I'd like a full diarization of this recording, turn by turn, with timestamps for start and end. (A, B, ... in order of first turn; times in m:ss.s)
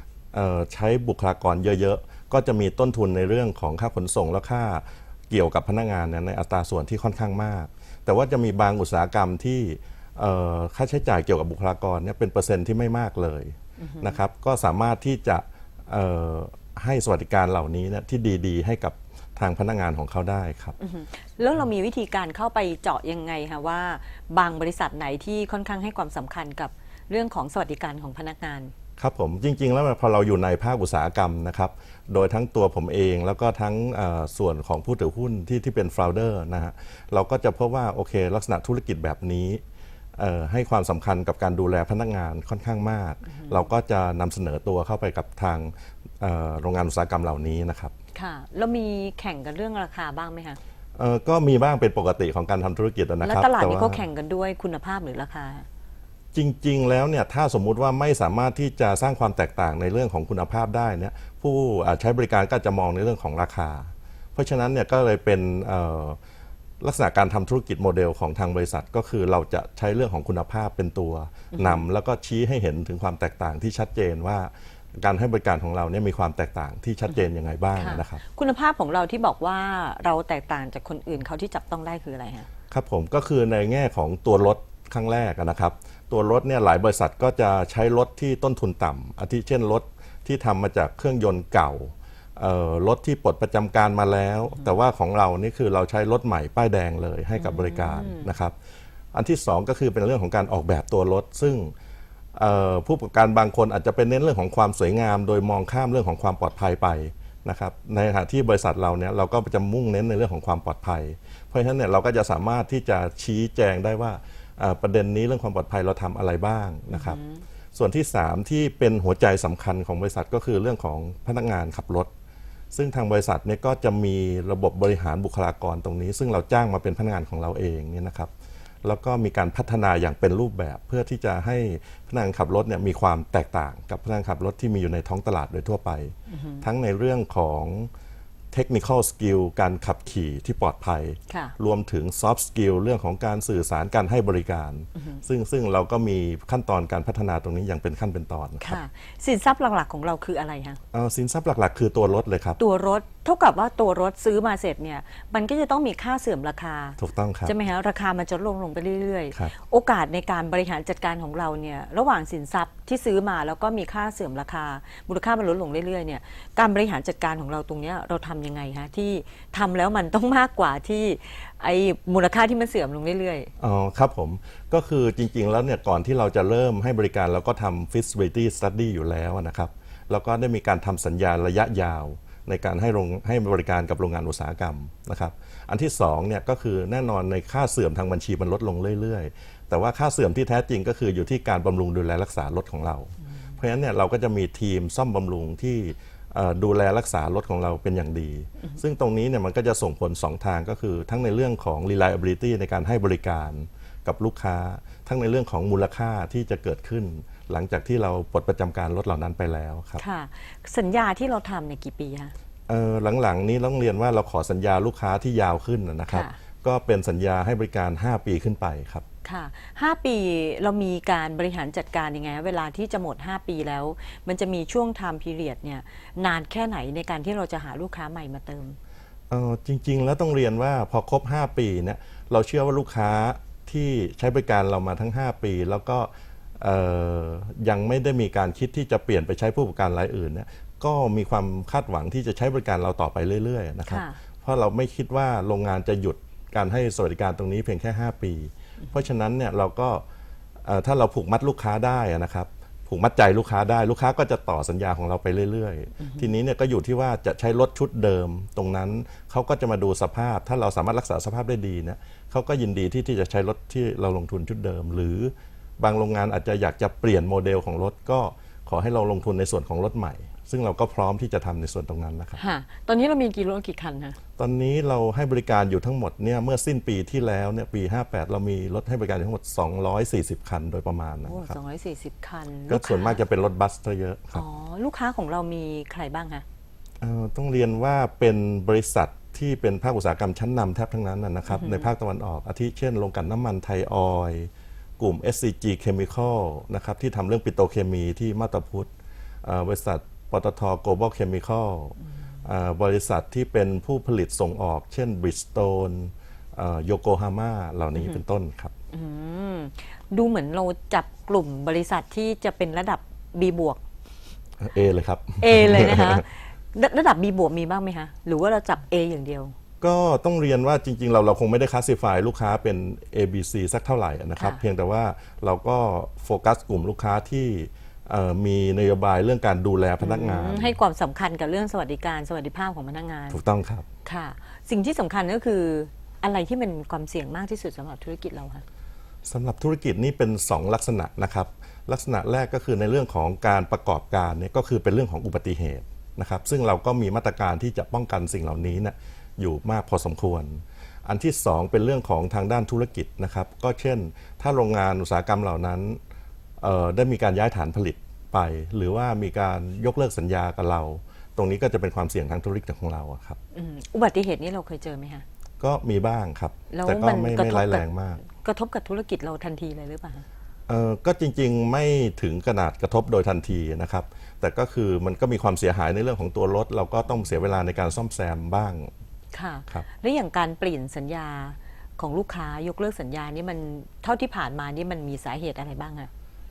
0:00.3-0:20.8 A
0:13.8-0:14.2 B
0:20.8-0:28.7 B
0:29.0-0:39.6 A
0:40.2-0:47.9 A
0:43.3-0:43.7 B
0:48.2-0:50.6 B
0:51.0-0:54.0 A
0:53.2-0:55.7 B
0:56.3-1:06.2 A
1:06.8-1:18.2 A
1:11.5-1:11.8 B
1:17.8-1:22.5 B
1:22.7-1:38.6 A
1:37.4-1:38.3 B
1:39.1-1:41.7 A
1:42.3-1:57.2 A
1:56.9-1:57.4 B
1:57.7-2:02.1 A
2:02.7-2:08.3 A
2:08.8-2:17.9 A
2:16.3-2:16.6 B
2:18.5-2:28.8 A
2:25.0-2:25.2 B
2:28.6-2:30.8 B
2:30.9-2:32.6 A
2:32.6-2:53.5 B
2:37.0-2:37.5 A
2:53.6-3:30.0 A
3:30.0-3:32.3 B
3:32.7-3:39.0 A
3:36.1-3:36.4 B
3:39.2-3:48.8 B
3:49.3-4:10.0 A
4:03.9-4:04.2 B
4:10.6-4:32.4 A
4:16.0-4:16.3 B
4:32.4-4:34.2 B
4:34.4-4:41.6 A
4:41.2-4:43.2 B
4:42.7-4:44.4 A
4:44.3-4:46.4 B
4:47.0-4:58.9 A
4:51.5-4:51.9 B
4:59.4-5:08.7 A
5:08.9-5:13.8 B
5:14.6-5:16.2 A
5:15.4-5:19.5 B
5:19.8-5:30.8 A
5:30.0-5:33.4 B
5:33.3-5:33.9 A
5:34.0-5:38.6 B
5:39.3-5:56.0 A
5:56.6-6:03.4 A
6:03.5-6:05.2 B
6:05.6-6:08.2 A
6:06.7-6:10.3 B
6:10.7-6:18.9 A
6:19.3-6:26.1 B